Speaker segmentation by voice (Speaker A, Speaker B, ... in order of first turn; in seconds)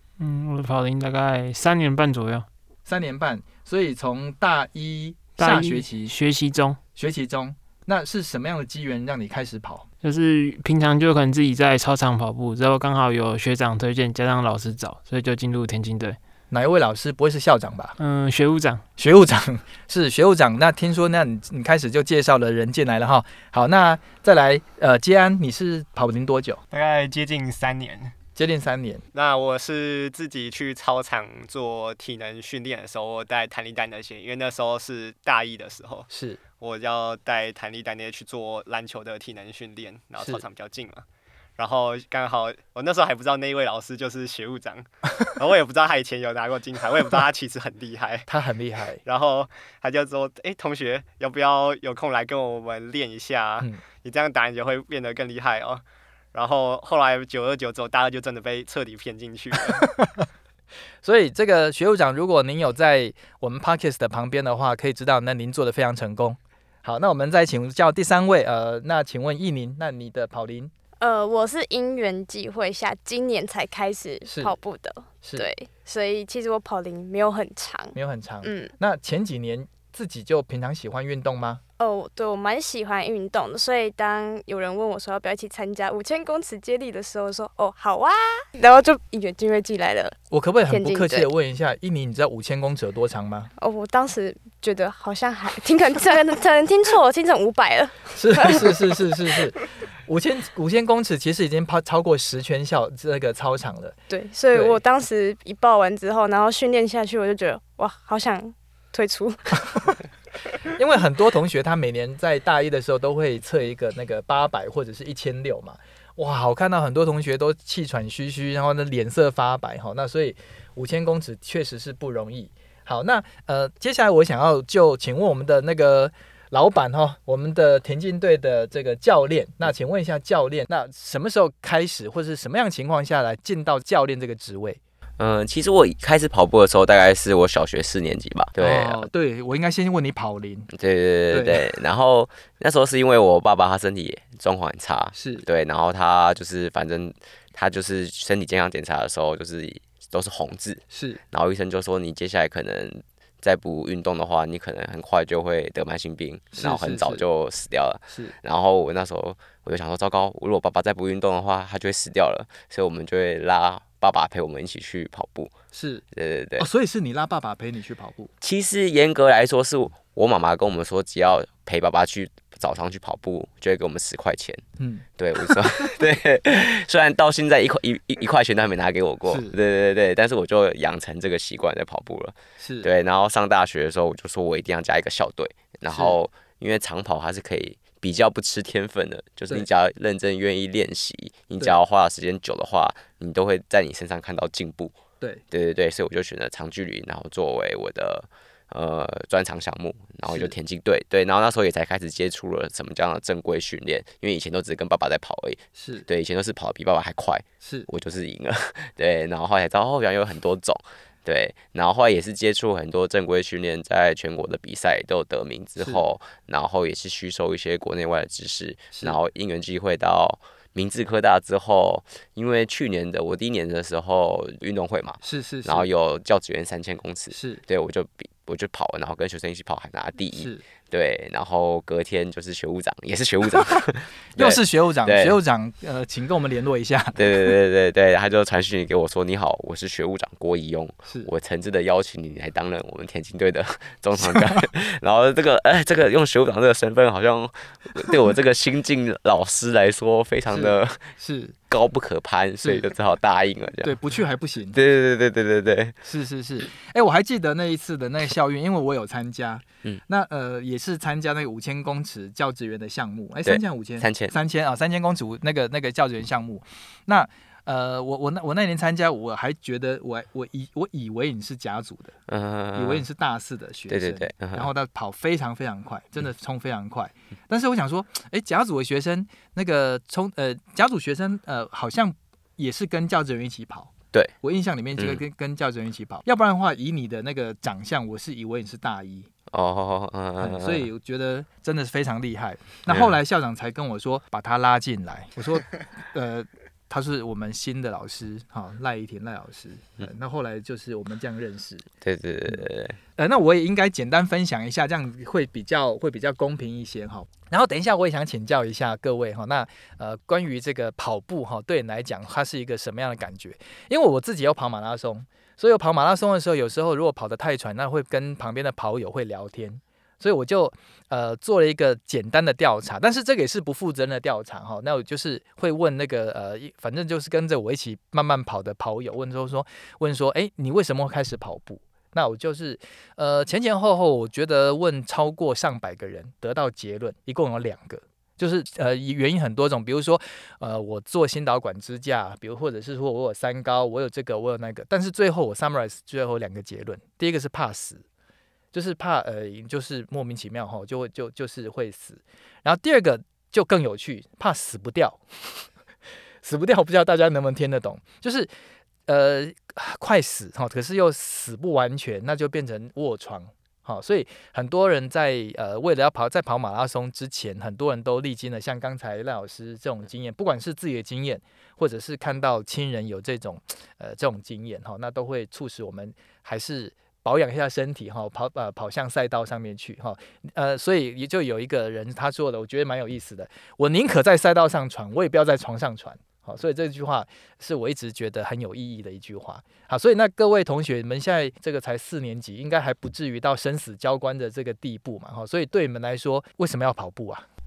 Speaker A: 0.2-2.5, 5.4-6.8, 10.0-16.2, 18.0-18.8
Speaker B: 2.9-6.1, 7.0-9.8, 16.5-18.0, 19.0-26.6, 28.4-29.0, 36.1-36.4, 48.3-49.0, 59.7-60.2, 61.0-70.7, 74.2-74.5, 77.9-81.6, 90.3-93.5, 98.2-104.0, 104.5-104.8, 110.6-134.8, 138.6-140.7, 141.3-141.8, 145.1-145.5, 150.9-151.2, 156.6-157.2, 158.1-158.3, 165.7-166.0, 166.6-168.3, 174.8-175.9, 179.2-179.6, 182.6-182.9, 185.9-186.2, 200.3-200.5, 205.8-206.1, 207.6-207.9, 225.2-225.9, 227.3-227.6, 230.3-230.6, 234.3-237.5, 244.2-244.7, 250.5-251.6, 252.6-252.9, 253.8-254.8, 256.0-272.1, 272.8-289.3, 290.4-301.9, 302.5-348.0, 348.7-355.7, 356.4-358.5, 359.1-397.4
Speaker C: 26.7-28.1, 29.1-36.1, 36.6-41.0, 41.6-48.3, 49.0-55.8, 56.3-59.9
Speaker D: 71.0-78.7, 81.8-90.2, 90.7-91.3, 93.6-99.1, 104.1-109.7
Speaker E: 135.2-139.1, 140.7-165.5, 166.1-166.7, 168.4-174.6, 175.2-195.0, 195.5-235.3, 237.2-251.1, 251.7-253.9, 254.7-256.0, 263.5-264.3, 272.3-273.0, 273.9-274.7, 289.5-290.9, 302.0-303.0